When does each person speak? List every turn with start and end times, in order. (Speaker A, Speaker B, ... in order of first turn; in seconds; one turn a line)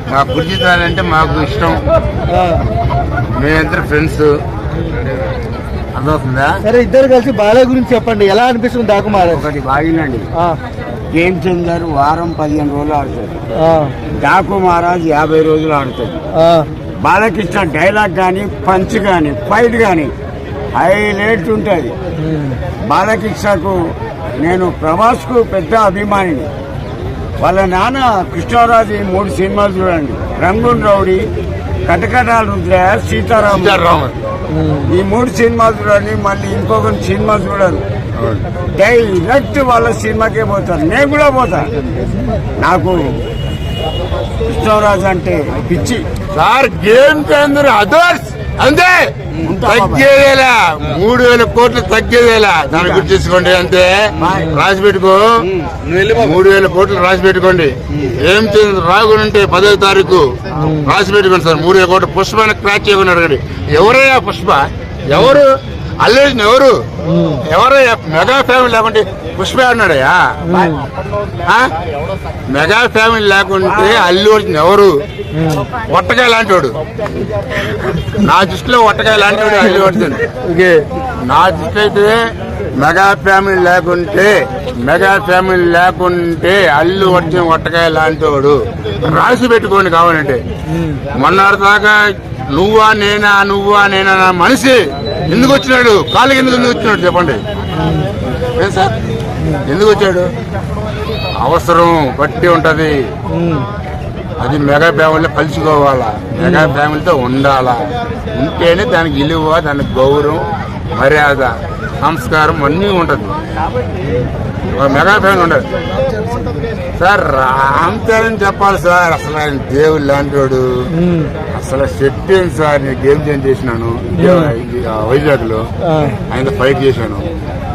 Speaker A: 0.1-1.8
Speaker B: 2.3-2.6
Speaker A: 3.3-4.3
Speaker A: 5.9-6.6
Speaker B: 6.6-9.5
Speaker C: 9.2-10.3
Speaker C: 11.1-13.4
Speaker B: 13.5-13.9
Speaker C: 14.1-16.2
Speaker B: 16.3-16.7
Speaker C: 17.0-20.1
Speaker C: 20.8-21.9
Speaker B: 22.2-22.6
Speaker C: 22.9-23.8
Speaker C: 24.4-26.5
Speaker C: 27.4-31.3
Speaker C: 31.9-33.8
Speaker A: 33.5-34.2
Speaker B: 34.5-34.9
Speaker C: 34.9-37.8
Speaker A: 38.2-38.4
Speaker C: 38.7-41.7
Speaker C: 42.6-43.2
Speaker C: 44.5-46.0
Speaker A: 46.3-55.5
Speaker C: 49.4-50.1
Speaker C: 52.8-53.1
Speaker C: 54.2-54.6
Speaker C: 55.5-55.9
Speaker A: 56.0-66.8
Speaker B: 60.6-60.9
Speaker B: 67.0-67.4
Speaker A: 67.4-70.4
Speaker B: 70.4-70.8
Speaker A: 71.5-71.7
Speaker A: 72.5-75.0
Speaker B: 75.3-75.7
Speaker A: 75.8-76.8
Speaker A: 78.1-80.3
Speaker B: 79.5-80.9
Speaker A: 81.2-82.1
Speaker A: 82.8-90.4
Speaker B: 90.7-91.0
Speaker A: 91.1-97.4
Speaker B: 95.3-95.5
Speaker B: 97.8-98.1
Speaker A: 98.4-99.0
Speaker A: 99.6-100.3
Speaker A: 101.3-103.0
Speaker B: 103.3-103.7
Speaker A: 104.4-113.4
Speaker B: 106.4-106.8
Speaker A: 114.7-115.6
Speaker A: 117.0-120.9
Speaker B: 120.9-121.3
Speaker A: 121.5-125.7
Speaker B: 124.2-124.5
Speaker B: 125.8-126.2
Speaker A: 126.3-127.3